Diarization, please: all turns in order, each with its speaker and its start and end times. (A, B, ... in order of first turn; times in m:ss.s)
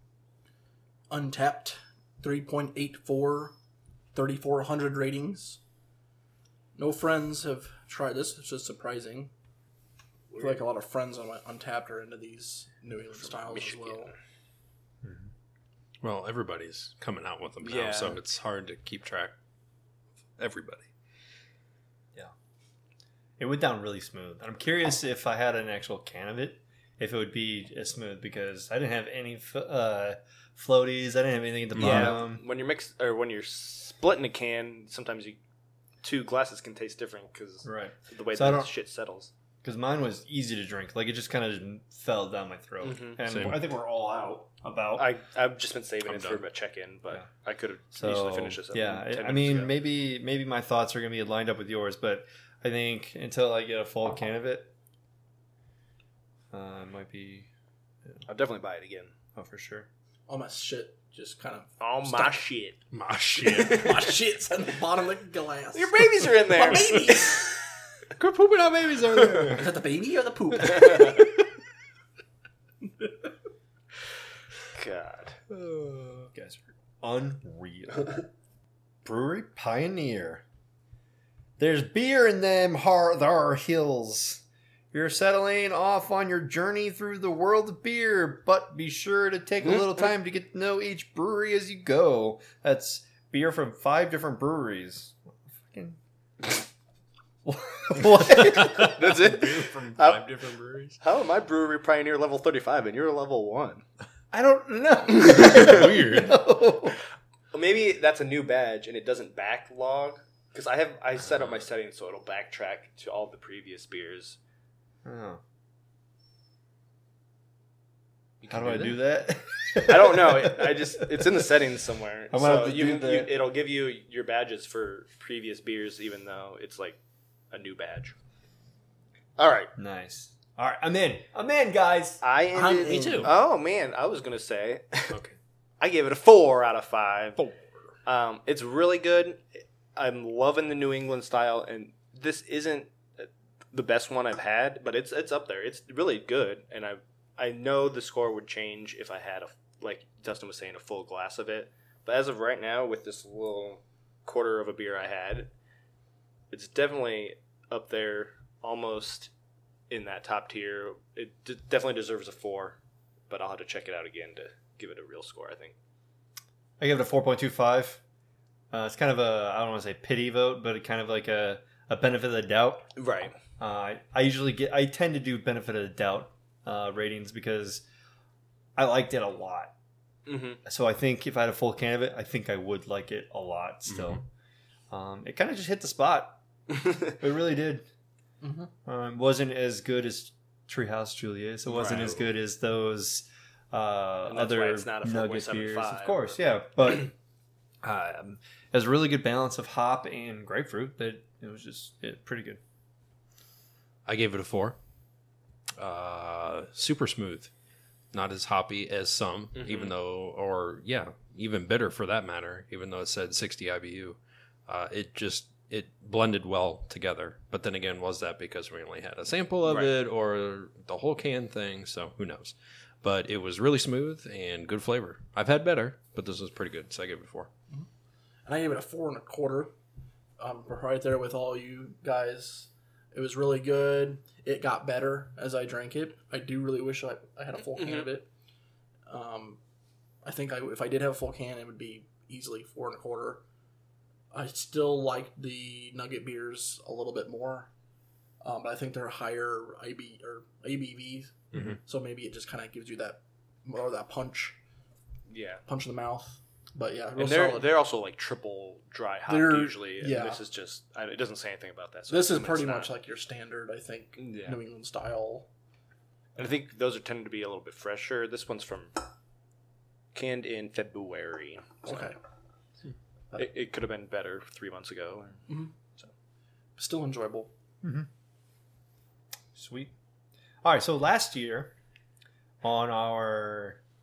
0:01.1-0:03.5 A
0:04.1-0:05.6 A
0:06.8-0:09.3 A
0:10.3-0:10.6 B
0:10.4-0:14.1 A
0:13.2-0:14.1 B
0:15.0-0:15.3 C
0:16.0-0:19.4 D
0:17.6-0:18.2 B
0:20.4-0:20.9 D
0:23.4-0:32.4 C
0:31.7-0:32.2 D
0:31.8-0:35.4 B
0:36.0-0:39.3 B
0:37.6-0:38.7 C
0:39.6-0:45.1 C
0:42.8-0:43.2 B
0:43.3-0:43.6 D
0:45.0-0:49.7 B
0:46.0-0:46.4 D
0:47.9-0:54.7 C
0:56.5-0:57.5 C
0:58.3-0:59.1 B
0:59.3-0:59.9 C
1:00.3-1:02.4 A
1:01.8-1:02.8 B
1:02.9-1:04.0 D
1:03.4-1:04.1 B
1:03.6-1:07.6 A
1:05.7-1:07.2 B
1:08.2-1:09.7 D
1:09.1-1:09.6 C
1:09.5-1:11.2 A
1:14.7-1:15.4 B
1:15.5-1:16.3 D
1:16.3-1:18.2 C
1:19.0-1:20.4 C
1:21.6-1:36.0 C
1:37.4-1:39.2 C
1:38.6-1:40.4 B
1:38.6-1:41.0 D
1:41.0-1:43.8 B
1:44.3-1:47.0 C
1:45.2-1:46.4 D
1:47.5-1:54.4 B
1:55.0-1:55.4 C
1:58.4-1:58.9 B
1:58.5-2:01.3 C
1:59.8-2:07.0 B
2:02.3-2:03.3 C
2:07.5-2:08.1 B
2:09.4-2:09.7 B
2:09.8-2:12.2 C
2:12.2-2:15.2 B
2:12.5-2:13.3 A
2:12.9-2:13.3 D
2:15.1-2:15.4 D
2:15.8-2:17.4 B
2:18.0-2:35.5 B
2:36.5-2:39.3 B
2:39.9-2:42.8 B
2:43.3-2:45.7 B
2:46.8-2:48.0 C
2:48.7-2:52.9 C
2:53.0-2:53.3 B
2:53.6-2:57.8 C
2:58.8-2:59.7 C
3:00.2-3:00.6 B
3:00.6-3:04.2 C
3:03.9-3:04.2 D
3:04.9-3:06.4 C
3:07.1-3:07.8 C
3:08.4-3:08.7 A
3:08.8-3:17.1 C
3:11.7-3:12.2 B
3:14.3-3:16.4 B
3:17.8-3:22.6 C
3:24.0-3:24.8 D
3:25.8-3:27.5 D
3:28.1-3:47.5 D
3:29.5-3:29.9 B
3:39.6-3:39.9 B
3:48.4-3:49.7 A
3:50.4-3:58.3 A
3:57.7-3:58.1 B
3:59.1-3:59.6 A
4:00.2-4:03.4 A
4:04.3-4:07.7 A
4:08.4-4:14.6 A
4:15.3-4:15.6 B
4:15.6-4:17.7 A
4:17.2-4:22.9 B
4:19.3-4:20.4 A
4:22.1-4:25.5 A
4:24.2-4:24.6 B
4:26.4-4:29.0 B
4:30.1-4:32.1 B
4:31.8-4:32.2 A
4:33.3-4:36.1 B
4:35.5-4:35.7 A
4:36.8-4:37.5 A
4:37.8-4:38.1 C
4:39.5-4:39.9 C
4:40.6-4:41.7 C
4:42.6-4:43.8 C